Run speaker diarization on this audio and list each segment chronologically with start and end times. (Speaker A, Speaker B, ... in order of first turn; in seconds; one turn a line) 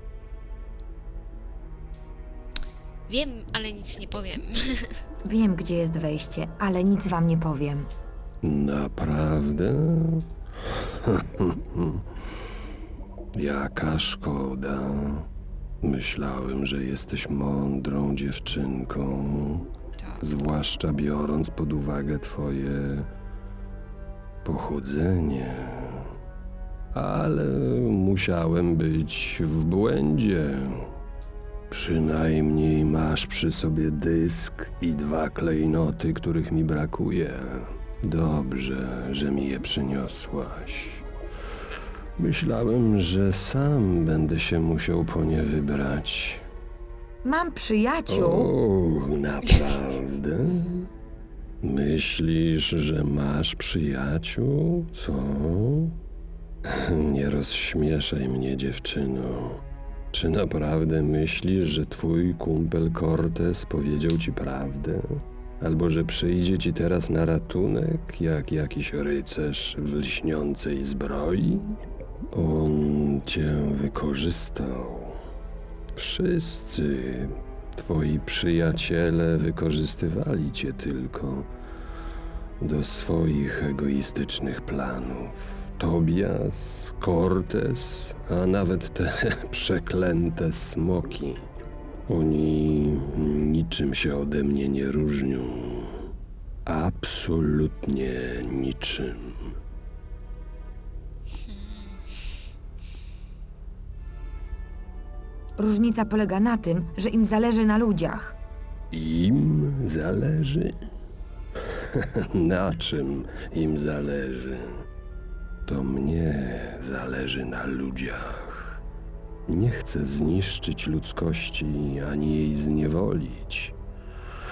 Speaker A: 3.1-5.0
Speaker B: 5.2-7.9
Speaker C: 8.4-12.0
Speaker C: 13.3-15.3
Speaker C: 15.8-19.7
Speaker A: 19.9-20.4
Speaker C: 20.2-23.1
Speaker C: 24.4-26.1
Speaker C: 26.9-30.9
Speaker C: 31.7-41.0
Speaker C: 42.2-46.4
Speaker B: 47.2-48.5
Speaker C: 48.1-50.9
Speaker C: 51.6-56.0
Speaker C: 56.6-71.8
Speaker C: 72.3-75.2
Speaker C: 76.0-81.5
Speaker C: 82.6-91.4
Speaker C: 92.1-96.0
Speaker C: 96.7-99.4
Speaker A: 101.4-102.0
Speaker B: 105.6-108.4
Speaker C: 108.9-110.8
Speaker C: 111.8-114.8
Speaker C: 115.7-118.8
Speaker C: 119.5-123.7